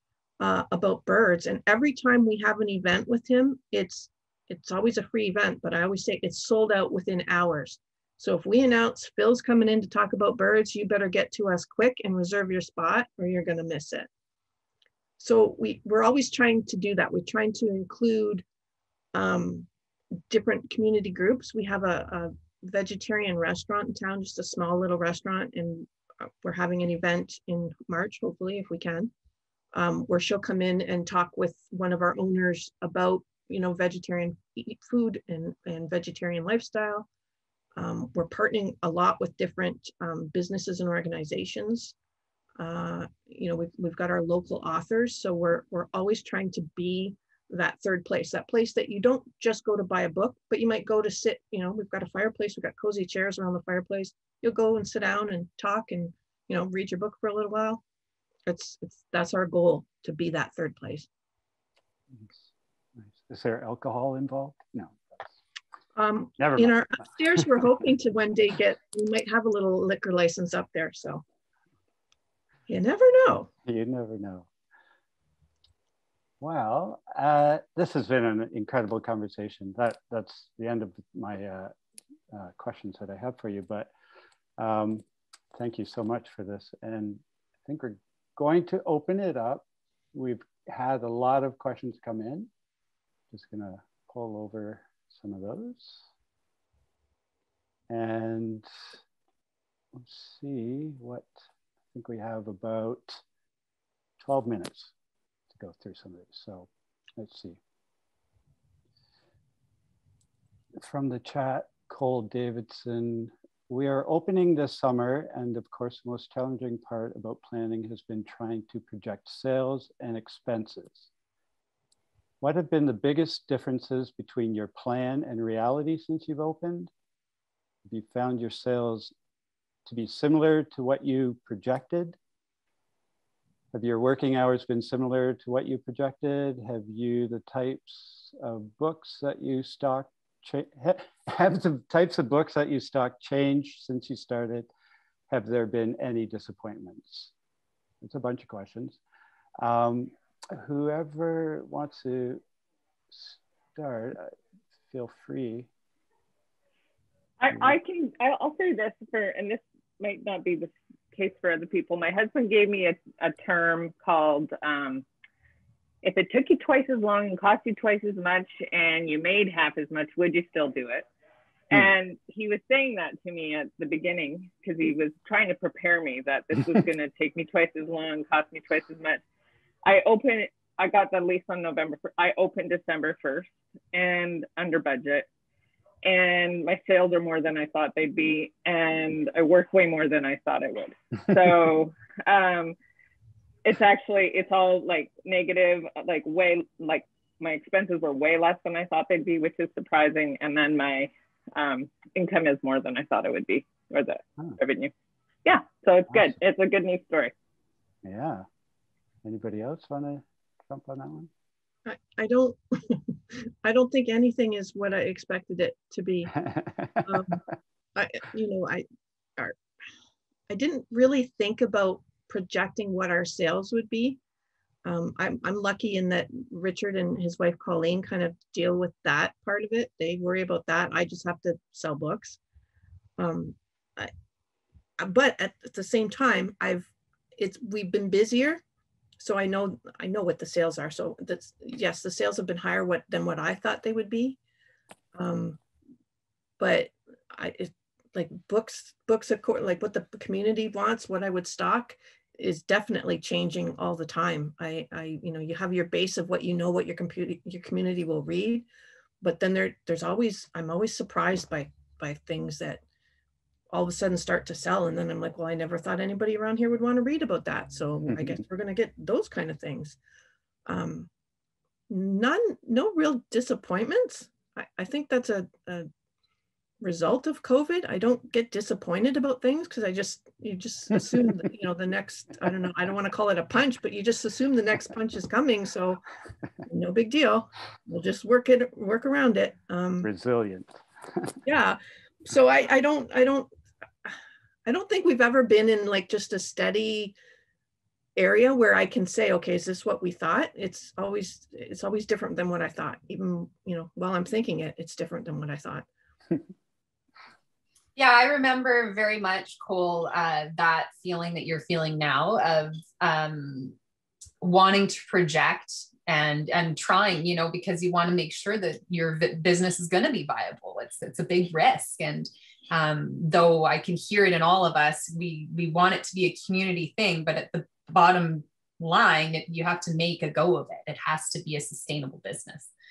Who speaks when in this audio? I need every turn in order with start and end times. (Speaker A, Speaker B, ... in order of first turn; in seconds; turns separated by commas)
Speaker A: 0.4-14.1, Speaker A: 15.2-18.4, Speaker A: 19.1-19.7, Speaker A: 20.3-29.1, Speaker A: 29.7-37.1, Speaker A: 37.8-41.9, Speaker A: 42.6-57.8, Speaker A: 58.5-61.1, Speaker B: 62.1-62.5, Speaker B: 63.0-65.4, Speaker A: 66.0-71.2, Speaker B: 66.4-67.5, Speaker A: 72.7-73.5, Speaker B: 73.6-74.5, Speaker B: 76.4-81.7, Speaker B: 82.3-83.9, Speaker B: 84.6-92.5, Speaker B: 93.3-96.1, Speaker B: 97.9-98.7, Speaker B: 100.0-101.4, Speaker B: 101.9-103.2, Speaker B: 104.2-104.9, Speaker B: 105.5-107.6, Speaker B: 110.8-121.1, Speaker B: 122.4-126.9, Speaker B: 127.9-129.1, Speaker B: 129.8-132.2, Speaker B: 133.7-144.7, Speaker B: 145.3-147.3, Speaker B: 148.0-149.0, Speaker B: 149.6-152.4, Speaker B: 153.1-154.3, Speaker B: 154.9-155.7, Speaker C: 157.4-165.1, Speaker C: 166.0-171.1, Speaker C: 171.7-179.2, Speaker C: 179.8-185.3, Speaker C: 186.0-192.8, Speaker C: 193.6-204.9, Speaker C: 205.4-207.3, Speaker B: 208.0-208.5, Speaker B: 209.2-211.3, Speaker A: 211.9-216.3, Speaker B: 216.4-217.4, Speaker A: 217.1-217.4, Speaker A: 218.0-218.9, Speaker A: 220.5-224.2, Speaker A: 224.8-232.4, Speaker A: 233.2-234.1, Speaker A: 235.0-238.6, Speaker A: 239.2-244.4, Speaker A: 245.2-245.6, Speaker A: 246.6-258.7, Speaker A: 259.2-262.8, Speaker A: 263.7-270.0, Speaker A: 270.7-271.1, Speaker A: 271.9-275.9, Speaker A: 276.8-286.0, Speaker A: 286.6-290.1, Speaker B: 290.0-291.4, Speaker A: 291.4-293.5, Speaker A: 294.0-297.1, Speaker A: 298.2-305.9, Speaker D: 308.0-313.8, Speaker D: 314.4-332.7